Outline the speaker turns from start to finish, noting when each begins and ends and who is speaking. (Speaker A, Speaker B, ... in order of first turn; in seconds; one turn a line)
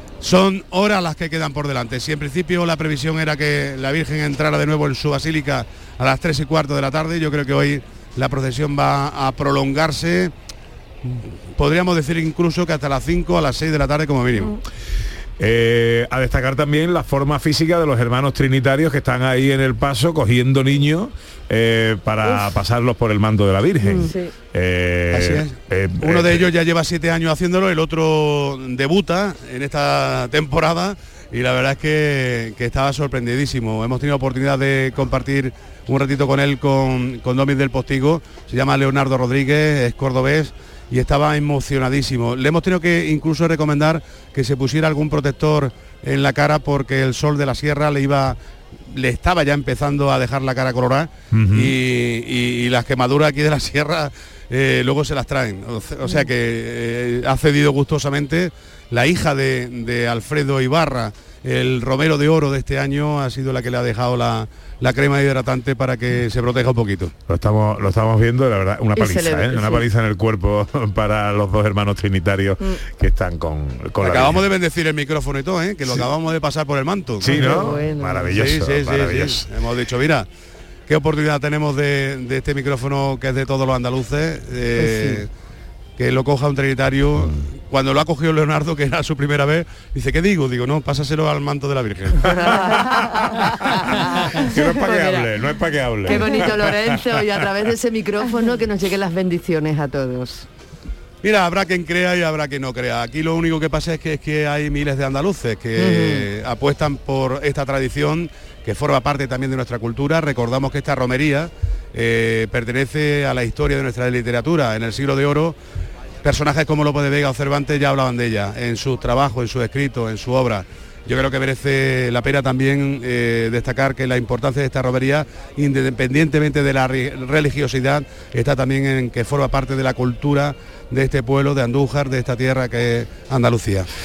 Speaker A: 0.2-10.3
Speaker A: 11.0-14.6
Speaker B: 15.4-26.5
Speaker C: 23.9-24.3
Speaker A: 25.1-48.4
Speaker A: 48.9-67.1
Speaker B: 51.3-51.7
Speaker B: 67.3-74.4
Speaker C: 69.0-69.9
Speaker A: 74.0-80.3
Speaker B: 77.2-79.5
Speaker C: 77.2-78.4
Speaker A: 80.9-85.3
Speaker C: 84.8-85.2
Speaker A: 86.0-92.6
Speaker C: 92.3-95.3
Speaker B: 92.8-97.0
Speaker C: 96.0-100.5
Speaker A: 101.2-115.6
Speaker C: 105.8-106.2
Speaker A: 116.2-133.9